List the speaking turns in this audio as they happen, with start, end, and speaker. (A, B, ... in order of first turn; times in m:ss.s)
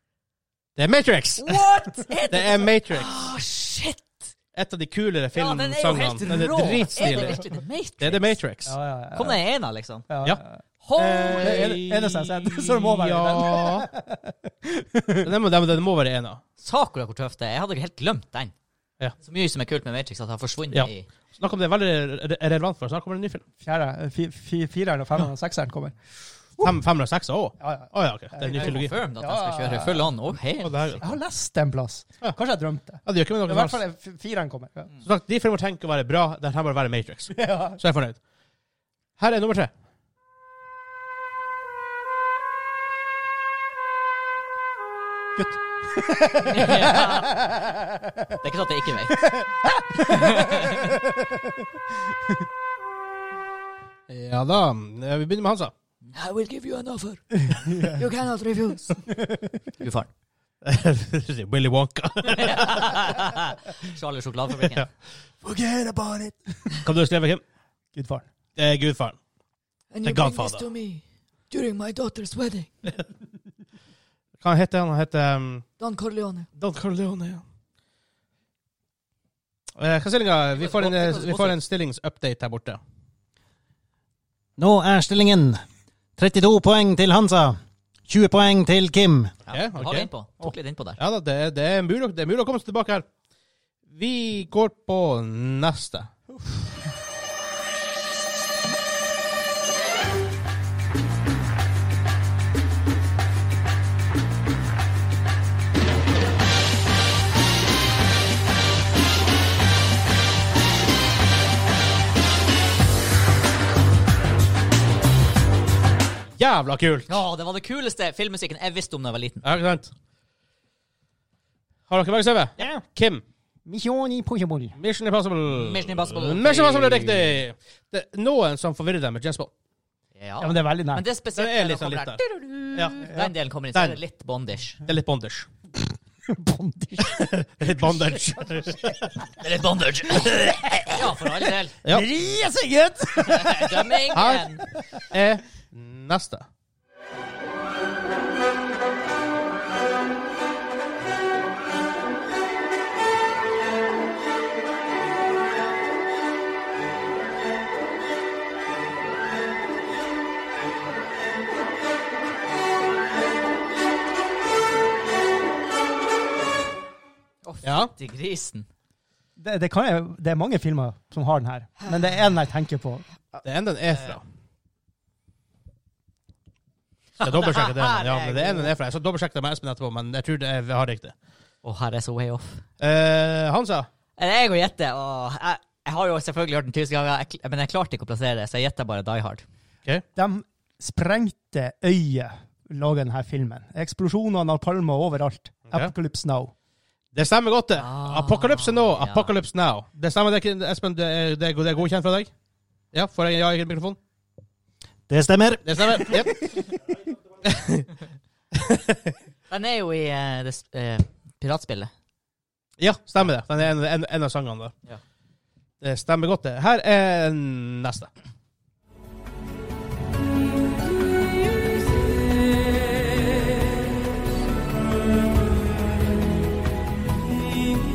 0:00.8-0:01.6 A
0:01.4-0:04.3 B
0:02.3-0:03.2 A
0:04.5-0:07.4 A
0:05.3-0:08.4 B
0:06.7-0:07.4 C
0:08.0-0:08.7 A
0:08.6-0:09.4 C
0:09.1-0:10.1 B
0:10.1-0:10.6 C
0:10.8-0:11.6 B
0:11.0-0:13.9 A
0:11.3-0:15.3 C
0:15.2-0:16.4 A
0:16.6-0:18.5 B
0:19.2-0:21.1 B
0:20.7-0:23.4 A
0:23.6-0:26.0 C
0:26.6-0:28.9 A
0:27.6-0:30.1 C
0:28.5-0:31.0 B
0:30.6-0:31.0 A
0:31.0-0:34.9 C
0:33.0-0:33.8 A
0:35.0-0:38.2 A
0:37.3-0:37.8 C
0:39.2-0:39.7 A
0:45.4-0:48.4 C
0:46.4-0:47.4 B
0:48.4-0:49.3 B
0:49.1-0:52.4 C
0:50.0-0:50.9 B
0:54.1-0:55.7 A
0:56.1-0:58.9 B
0:57.3-0:58.1 C
0:59.0-0:59.6 C
0:59.8-1:00.1 B
1:00.6-1:03.1 A
1:02.3-1:04.8 B
1:05.4-1:06.8 C
1:06.8-1:07.4 A
1:07.9-1:08.3 C
1:08.6-1:09.2 A
1:09.9-1:12.7 B
1:10.0-1:10.7 A
1:14.4-1:15.7 A
1:15.8-1:16.5 B
1:16.6-1:17.4 A
1:19.8-1:22.8 A
1:20.5-1:21.6 B
1:24.6-1:25.6 D
1:26.2-1:29.3 D
1:29.5-1:31.0 B
1:29.5-1:30.1 A
1:31.0-1:33.0 A
1:33.9-1:36.1 A
1:36.3-1:36.7 C
1:56.4-1:57.1 A
1:57.1-1:59.4 B
1:59.4-1:59.9 A
2:01.9-2:03.2 A
2:02.6-2:02.8 C
2:03.6-2:04.8 C
2:04.8-2:09.5 A
2:05.5-2:07.4 B
2:10.2-2:14.8 B
2:10.4-2:11.0 C
2:11.3-2:12.2 A
2:13.0-2:13.3 C
2:13.7-2:14.0 A
2:14.8-2:15.5 A
2:16.2-2:19.2 C
2:17.1-2:19.2 A
2:19.4-2:21.8 B
2:20.0-2:21.4 C
2:21.9-2:24.0 C
2:23.2-2:24.6 B
2:24.1-2:24.4 A
2:25.1-2:26.4 A
2:47.4-2:48.7 B
2:47.6-2:47.9 A
2:49.4-2:53.0 C
2:53.4-2:54.2 A
2:57.2-2:58.7 B
2:57.2-3:01.1 A
3:01.6-3:02.6 B
3:02.8-3:03.9 A
3:04.2-3:09.4 B
3:10.2-3:16.5 C
3:17.1-3:22.3 A
3:17.8-3:19.3 B
3:22.9-3:24.0 A
3:25.1-3:26.2 D
3:25.6-3:26.4 A
3:27.4-3:27.9 A
3:28.5-3:29.1 A
3:29.5-3:31.9 B
3:32.8-3:34.7 A
3:35.8-3:38.1 A